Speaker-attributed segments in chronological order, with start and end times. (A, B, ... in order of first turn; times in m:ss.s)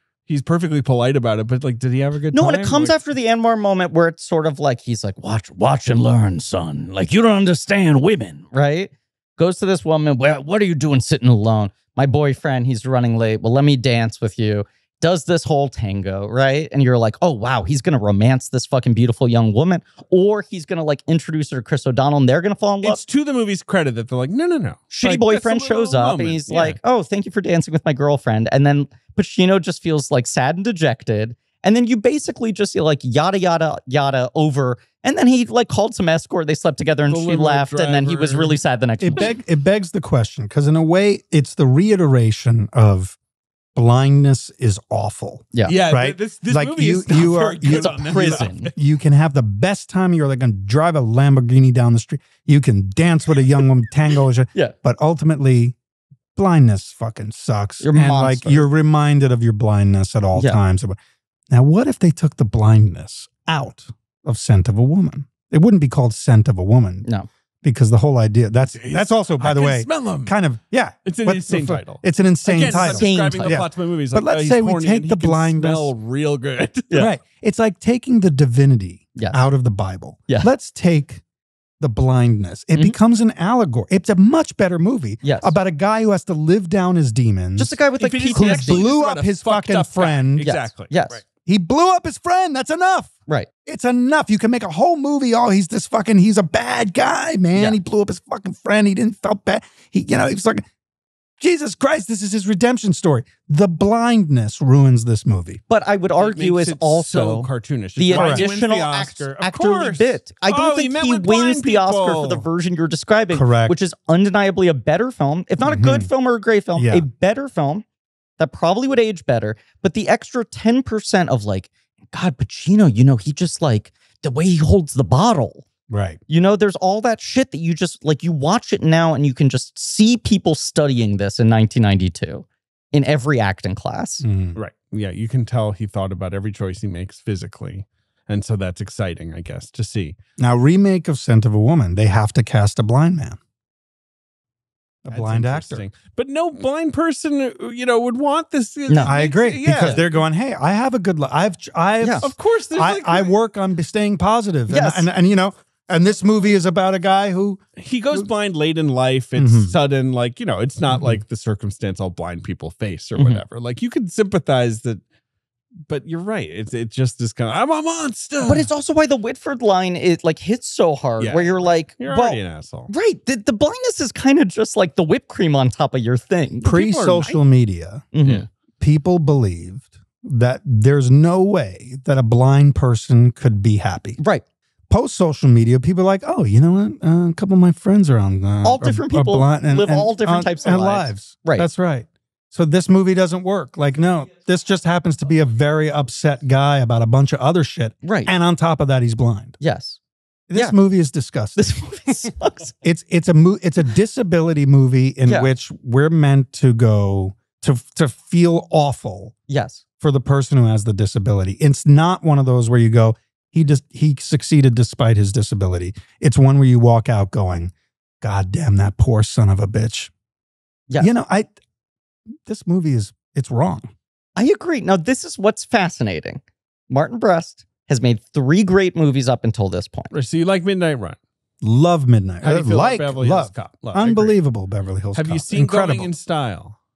0:00.3-0:03.0 A
0:02.3-0:05.2 B
0:05.2-0:08.5 C
0:08.5-0:23.0 B
0:22.8-0:26.8 A
0:24.9-0:39.3 B
0:37.1-0:38.6 A
0:39.0-0:43.2 D
0:43.7-0:55.8 D
0:45.6-0:48.7 A
0:47.6-0:48.7 B
0:56.4-1:01.0 D
0:57.8-0:58.6 B
1:00.3-1:00.6 B
1:01.5-1:07.1 D
1:07.6-1:15.9 D
1:08.6-1:10.3 A
1:11.0-1:16.9 A
1:12.6-1:13.6 B
1:16.9-1:21.2 D
1:19.2-1:19.4 B
1:21.8-1:27.8 D
1:25.2-1:25.5 B
1:27.6-1:28.9 B
1:28.0-1:31.2 A
1:28.3-1:30.5 D
1:30.4-1:31.2 B
1:31.4-1:40.6 D
1:37.5-1:37.8 B
1:41.4-1:45.6 D
1:45.7-1:57.8 B
1:46.2-1:52.4 A
1:48.1-1:48.5 D
1:53.3-1:53.7 D
1:55.6-1:56.1 D
1:56.8-1:57.0 D
1:58.4-2:05.6 B
2:05.9-2:06.2 D
2:06.3-2:14.2 B
2:14.2-2:14.6 D
2:14.6-2:20.1 A
2:20.4-2:23.4 D
2:25.0-2:25.8 D
2:25.1-2:30.2 A
2:28.9-2:29.2 B
2:29.0-2:37.6 D
2:29.7-2:30.0 B
2:32.0-2:32.3 B
2:32.2-2:33.3 A
2:34.7-2:35.1 B
2:37.8-2:45.0 A
2:39.4-2:39.7 D
2:40.9-2:41.2 D
2:43.2-2:43.4 B
2:45.9-2:48.7 A
2:48.4-2:56.7 B
2:51.2-2:52.9 A
2:56.6-2:57.4 A
2:56.6-2:58.1 D
2:58.1-2:58.4 B
2:58.8-3:04.2 D
3:04.2-3:04.4 B
3:04.9-3:19.6 D
3:08.6-3:11.7 B
3:18.0-3:18.3 B
3:19.6-3:20.0 B
3:20.5-3:22.3 D
3:21.6-3:22.7 B
3:22.8-3:29.3 D
3:29.5-3:29.8 B
3:30.0-3:40.1 D
3:41.0-3:41.5 D
3:42.4-3:43.9 D
3:44.4-3:50.1 B
3:50.1-3:51.2 A
3:51.6-3:56.1 D
3:52.4-3:54.4 A
3:55.1-3:56.8 A